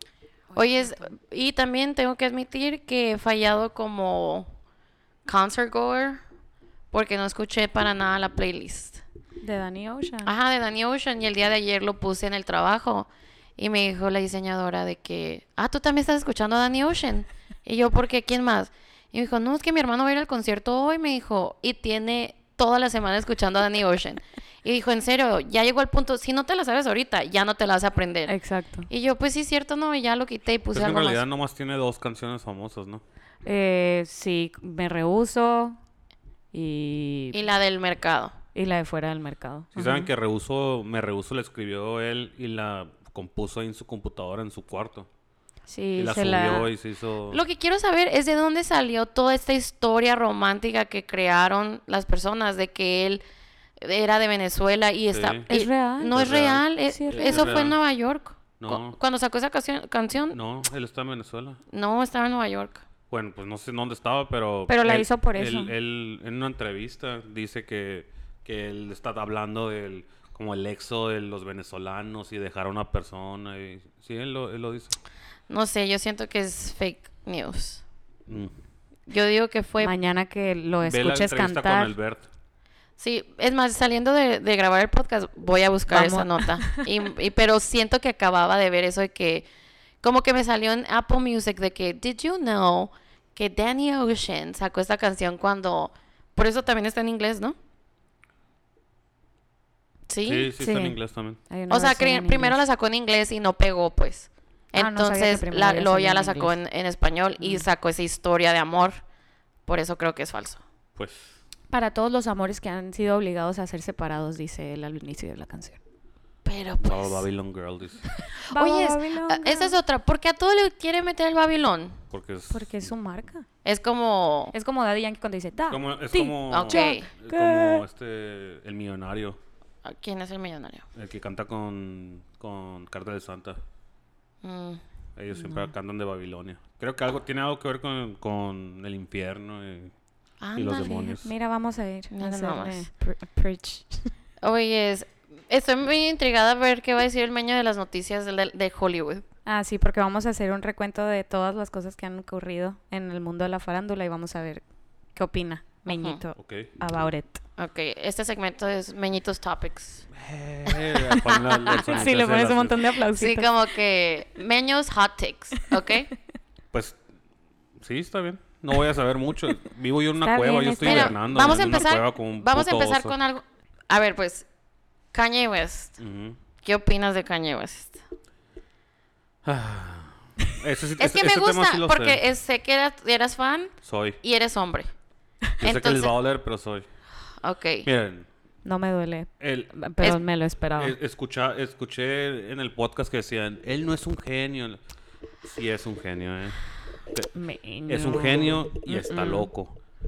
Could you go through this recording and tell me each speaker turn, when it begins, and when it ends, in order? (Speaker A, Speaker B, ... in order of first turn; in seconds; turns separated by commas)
Speaker A: 0.5-1.1, Speaker B: 0.6-4.5, Speaker B: 5.3-6.2, Speaker B: 6.9-9.0, Speaker A: 9.4-10.3, Speaker B: 10.2-28.3, Speaker A: 28.3-28.9, Speaker B: 28.9-31.2, Speaker C: 30.7-33.0, Speaker A: 33.5-35.8, Speaker A: 36.5-37.4, Speaker B: 37.3-38.4, Speaker A: 38.5-40.1, Speaker C: 39.7-45.1, Speaker A: 45.7-46.7, Speaker C: 46.0-47.4, Speaker B: 47.3-53.2, Speaker B: 53.8-60.4, Speaker C: 55.1-55.5, Speaker A: 55.5-56.2, Speaker C: 56.1-57.8, Speaker A: 56.9-57.5, Speaker C: 58.6-59.0, Speaker C: 60.3-61.6, Speaker B: 61.7-62.8, Speaker C: 63.1-75.0, Speaker A: 64.7-65.7, Speaker B: 75.5-77.8, Speaker C: 78.3-78.5, Speaker B: 79.1-79.9, Speaker A: 79.8-81.9, Speaker C: 80.8-82.3, Speaker B: 83.0-89.5, Speaker A: 85.9-86.8, Speaker B: 90.0-97.6, Speaker B: 100.1-100.5, Speaker C: 100.2-101.4, Speaker A: 100.6-101.0, Speaker A: 101.5-102.6, Speaker B: 101.7-109.0, Speaker A: 104.8-106.5, Speaker A: 107.4-107.7, Speaker B: 109.7-110.6, Speaker C: 111.0-111.4, Speaker A: 111.7-115.8, Speaker B: 116.5-117.3, Speaker C: 116.8-118.0, Speaker B: 118.2-122.0, Speaker A: 118.5-119.8, Speaker C: 122.1-122.9, Speaker A: 122.5-123.5, Speaker B: 123.6-124.5, Speaker A: 124.5-127.8, Speaker C: 125.7-129.4, Speaker B: 126.5-127.1, Speaker B: 129.8-130.8, Speaker C: 130.9-133.6, Speaker B: 134.4-134.8, Speaker C: 135.2-139.9, Speaker A: 135.3-135.7, Speaker B: 140.4-141.1, Speaker C: 140.6-141.3, Speaker A: 141.1-144.1, Speaker B: 142.1-142.9, Speaker B: 144.4-149.2, Speaker A: 149.5-154.6, Speaker A: 155.2-157.4, Speaker B: 155.9-156.2, Speaker C: 156.4-156.7, Speaker B: 157.6-160.1, Speaker C: 160.1-162.8, Speaker B: 161.1-161.8, Speaker A: 161.2-163.5, Speaker B: 163.1-166.1, Speaker C: 166.7-167.0, Speaker C: 167.8-173.2, Speaker A: 170.2-171.2, Speaker B: 170.8-174.5, Speaker B: 175.1-176.0, Speaker C: 176.0-176.4, Speaker B: 176.6-178.0, Speaker C: 179.4-182.2, Speaker B: 181.0-184.9, Speaker C: 183.8-184.2, Speaker C: 185.6-186.9, Speaker B: 185.6-186.1, Speaker B: 187.4-187.9, Speaker C: 187.8-188.3, Speaker A: 188.7-191.0, Speaker C: 189.4-190.2, Speaker C: 190.8-194.8, Speaker C: 195.4-196.6, Speaker A: 197.3-199.5, Speaker C: 197.9-199.8